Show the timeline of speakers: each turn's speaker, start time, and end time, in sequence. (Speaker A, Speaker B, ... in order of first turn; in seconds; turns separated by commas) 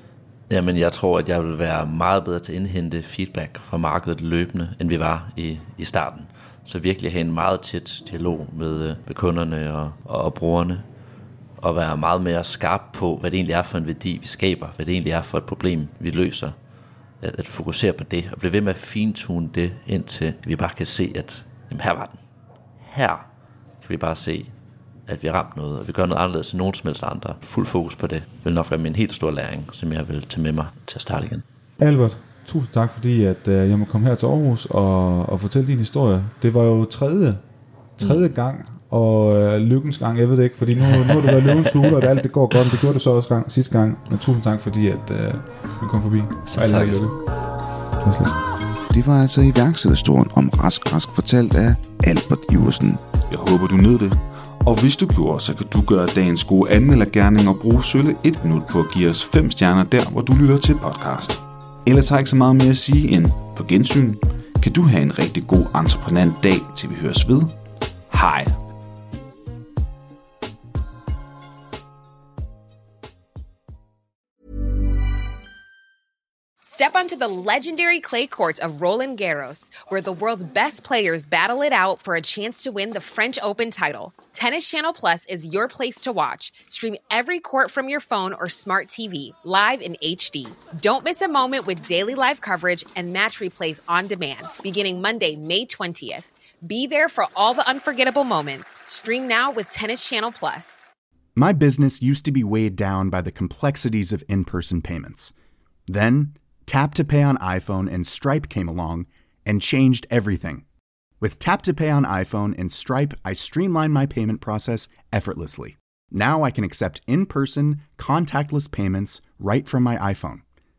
Speaker A: 0.5-10.8, Speaker A: 11.6-16.6, Speaker A: 17.2-22.2, Speaker A: 22.8-23.3, Speaker A: 23.8-24.5, Speaker A: 25.1-31.4, Speaker B: 31.8-37.4, Speaker B: 38.0-47.1, Speaker A: 38.0-38.3, Speaker A: 40.9-41.8, Speaker A: 46.5-47.1, Speaker B: 48.0-48.4, Speaker C: 48.9-67.6, Speaker C: 68.1-68.6, Speaker D: 76.7-100.8, Speaker E: 101.4-105.3, Speaker E: 105.9-110.6, Speaker E: 111.2-120.4